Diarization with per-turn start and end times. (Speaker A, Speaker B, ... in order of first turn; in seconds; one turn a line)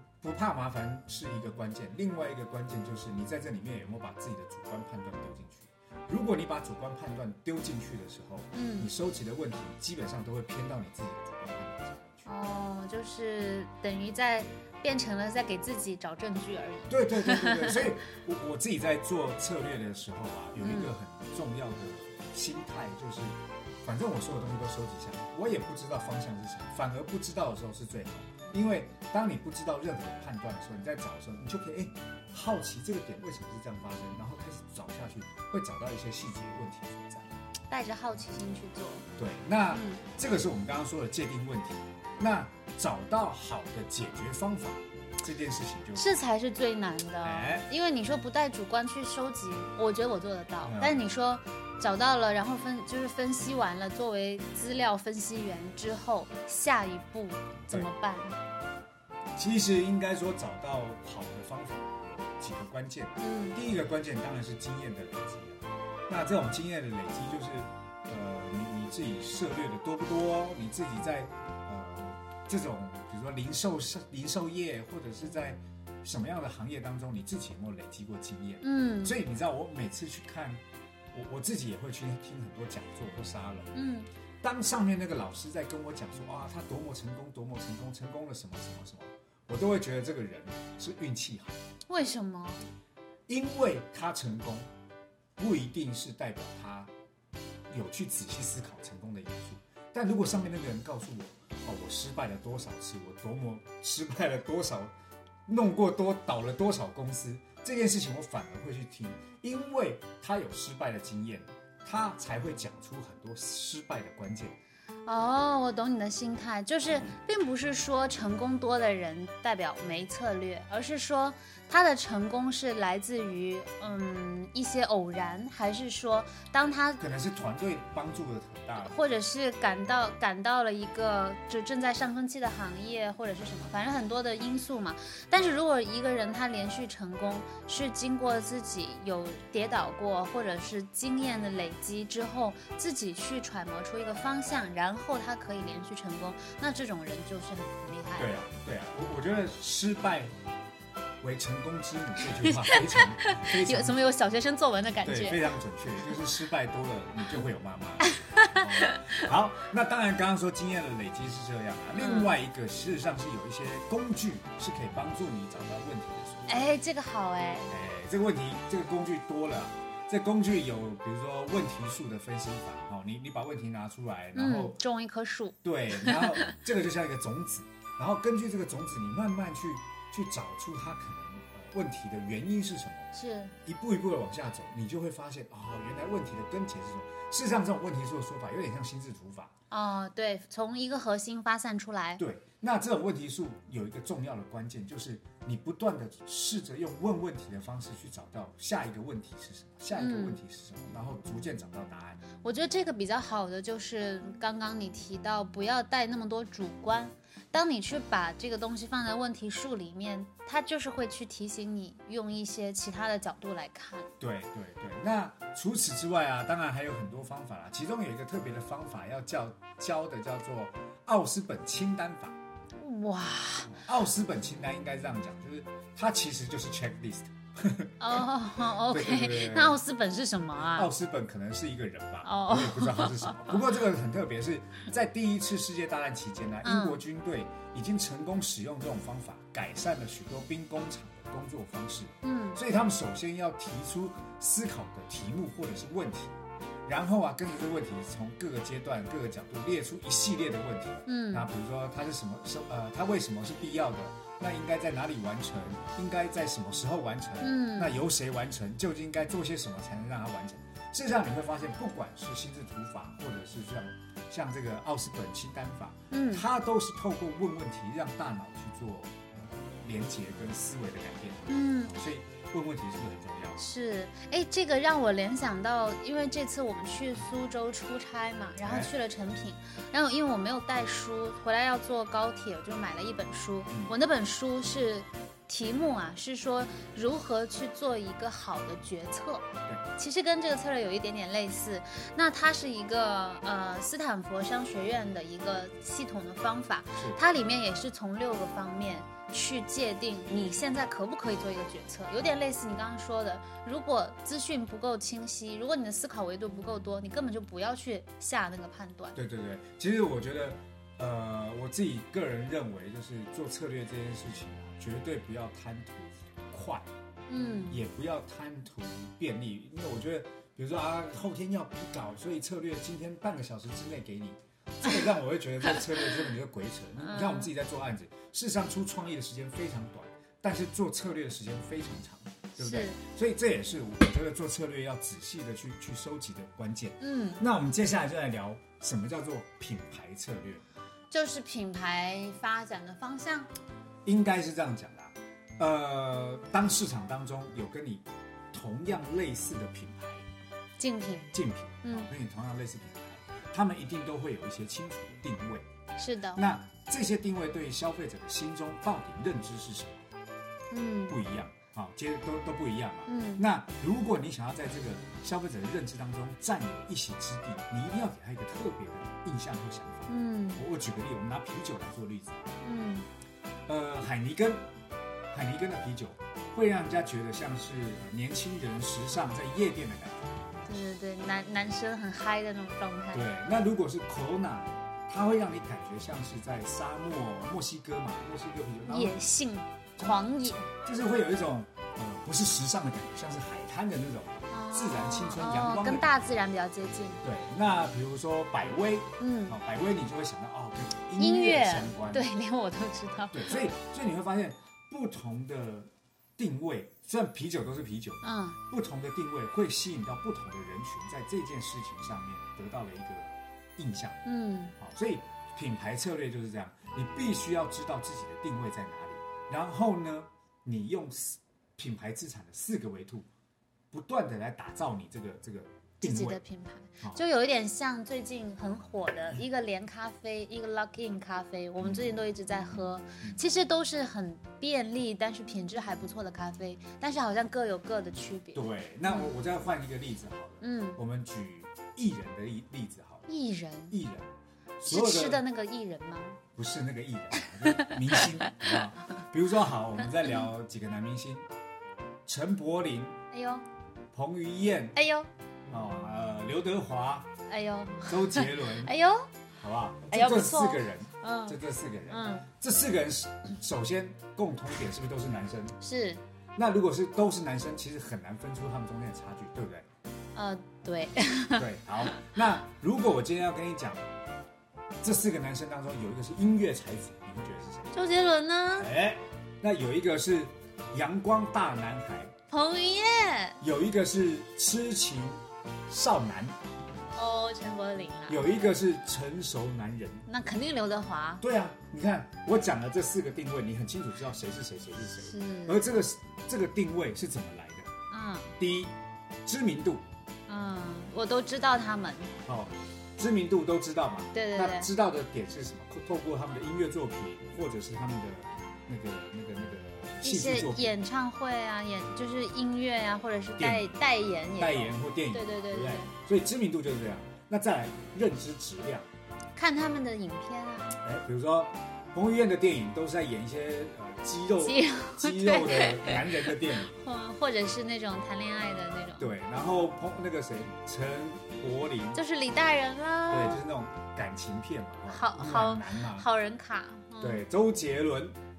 Speaker A: 0.2-12.3
Speaker B: 8.5-8.9
Speaker B: 12.2-17.9
Speaker A: 16.9-37.3
Speaker B: 20.6-20.9
Speaker B: 37.7-39.0
Speaker A: 39.2-46.1
Speaker B: 39.7-40.0
Speaker B: 46.0-58.4
Speaker A: 47.2-47.7
Speaker A: 50.6-51.0
Speaker A: 59.4-80.6
Speaker B: 63.2-63.6
Speaker B: 78.6-79.2
Speaker A: 81.1-83.7
Speaker B: 83.7-84.1
Speaker A: 84.4-91.6
Speaker B: 91.9-92.7
Speaker A: 93.3-94.7
Speaker A: 95.4-96.9
Speaker A: 97.7-104.9
Speaker A: 105.5-114.5
Speaker B: 115.0-127.0
Speaker A: 127.0-128.9
Speaker B: 128.8-148.3
Speaker A: 148.2-150.3
Speaker A: 151.2-154.0
Speaker B: 152.4-155.5
Speaker A: 155.0-166.7
Speaker B: 158.0-159.3
Speaker B: 161.9-162.3
Speaker B: 166.5-167.7
Speaker A: 167.7-174.8
Speaker B: 174.3-176.5
Speaker A: 175.6-183.1
Speaker B: 183.1-183.5
Speaker A: 183.6-189.5
Speaker B: 189.7-192.2
Speaker A: 192.2-202.2
Speaker B: 199.9-200.4
Speaker B: 202.4-214.1
Speaker A: 214.2-222.4
Speaker B: 222.8-223.8
Speaker A: 223.7-228.2
Speaker B: 228.0-230.9
Speaker A: 228.9-229.8
Speaker A: 230.6-273.6
Speaker B: 232.2-233.6
Speaker B: 236.6-237.0
Speaker B: 242.2-242.6
Speaker B: 251.1-251.5
Speaker B: 257.4-258.0
Speaker B: 266.1-266.4
Speaker B: 271.5-271.9
Speaker B: 273.6-309.2
Speaker A: 278.6-278.9
Speaker A: 283.7-283.9
Speaker A: 309.1-316.9
Speaker B: 317.3-317.8
Speaker A: 317.7-340.6
Speaker B: 327.0-327.5
Speaker B: 332.6-333.0
Speaker B: 337.0-337.4
Speaker B: 341.1-343.5
Speaker A: 344.0-350.3
Speaker B: 350.8-351.3
Speaker A: 351.3-355.6
Speaker B: 355.9-356.4
Speaker A: 356.3-360.1
Speaker B: 360.7-361.2
Speaker A: 361.1-372.6
Speaker B: 363.1-363.4
Speaker B: 370.1-370.6
Speaker B: 372.6-373.1
Speaker A: 373.7-374.6
Speaker A: 375.3-380.5
Speaker B: 380.6-383.2
Speaker A: 383.1-389.2
Speaker B: 388.9-390.7
Speaker A: 390.0-396.1
Speaker B: 394.5-397.2
Speaker A: 397.2-402.2
Speaker B: 399.2-399.6
Speaker B: 401.2-403.6
Speaker A: 403.3-414.2
Speaker B: 408.2-408.6
Speaker B: 414.2-414.7
Speaker A: 414.8-423.3
Speaker A: 423.9-426.4
Speaker B: 426.0-439.3
Speaker A: 438.5-443.3
Speaker B: 440.6-441.0
Speaker B: 443.3-443.9
Speaker A: 443.9-445.4
Speaker B: 444.9-446.4
Speaker A: 446.5-451.5
Speaker B: 447.4-448.8
Speaker A: 452.2-453.2
Speaker B: 453.3-453.6
Speaker A: 454.1-454.9
Speaker B: 454.9-455.3
Speaker A: 455.7-457.3
Speaker B: 457.5-459.3
Speaker A: 458.0-458.9
Speaker A: 459.6-465.8
Speaker B: 460.1-462.5
Speaker B: 465.8-466.2
Speaker A: 466.6-469.9
Speaker B: 470.3-472.2
Speaker A: 471.5-474.1
Speaker A: 475.0-477.9
Speaker B: 477.9-478.9
Speaker A: 478.8-482.3
Speaker B: 482.5-483.6
Speaker A: 483.6-486.6
Speaker B: 487.1-488.7
Speaker A: 488.3-490.2
Speaker B: 490.3-491.4
Speaker A: 491.4-497.9
Speaker B: 495.2-495.8
Speaker B: 498.1-498.6
Speaker A: 498.6-500.0
Speaker B: 500.5-502.3
Speaker A: 502.4-510.9
Speaker B: 504.3-504.9
Speaker B: 510.2-516.1
Speaker A: 513.6-513.9
Speaker A: 514.6-519.1
Speaker B: 519.5-521.0
Speaker A: 521.0-526.9
Speaker B: 524.6-529.3
Speaker A: 529.2-532.2
Speaker B: 532.1-533.6
Speaker A: 533.3-536.3
Speaker B: 535.1-537.4
Speaker A: 537.2-538.4